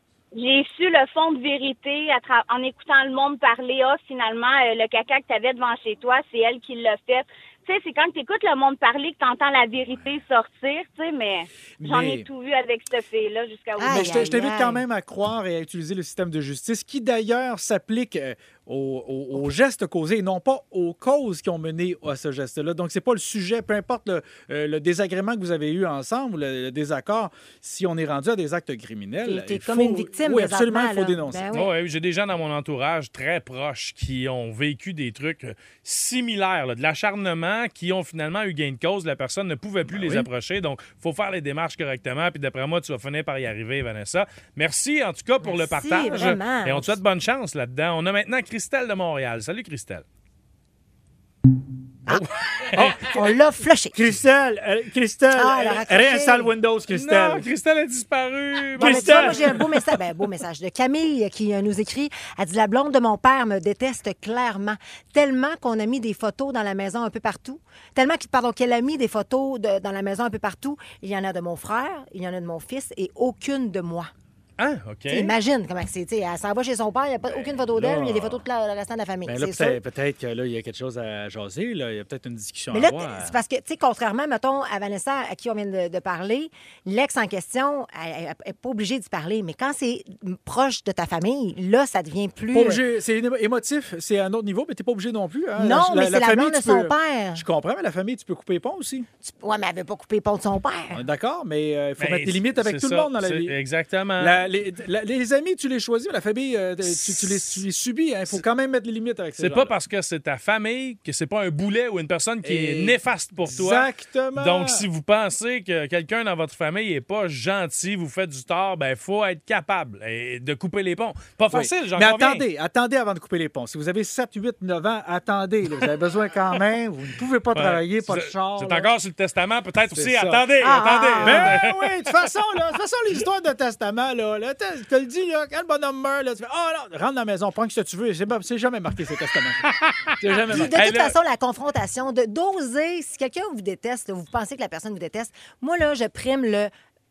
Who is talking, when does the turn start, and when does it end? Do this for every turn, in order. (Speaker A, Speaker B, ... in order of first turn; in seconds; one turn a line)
Speaker A: 0.3-14.3
Speaker B: 11.8-12.2
Speaker C: 13.8-14.8
Speaker B: 13.8-31.4
Speaker C: 29.2-31.7
Speaker D: 31.5-50.0
Speaker B: 39.9-40.3
Speaker C: 45.4-47.0
Speaker D: 52.1-53.1
Speaker C: 53.0-54.0
Speaker B: 53.9-57.4
Speaker C: 55.3-56.5
Speaker D: 56.9-59.6
Speaker B: 58.8-59.8
Speaker C: 58.8-74.1
Speaker D: 74.6-75.3
Speaker C: 75.1-79.8
Speaker B: 77.3-78.4
Speaker B: 79.2-83.3
Speaker C: 82.7-92.8
Speaker B: 92.5-99.1
Speaker C: 95.6-97.4
Speaker C: 99.2-101.0
Speaker B: 100.9-103.5
Speaker D: 102.0-104.4
Speaker B: 104.2-109.7
Speaker D: 106.8-107.6
Speaker D: 109.4-122.4
Speaker B: 112.4-114.8
Speaker B: 121.5-128.9
Speaker D: 127.5-132.1
Speaker B: 129.9-130.4
Speaker C: 130.6-131.6
Speaker B: 131.2-139.6
Speaker D: 139.7-141.1
Speaker B: 140.2-140.8
Speaker C: 140.5-146.7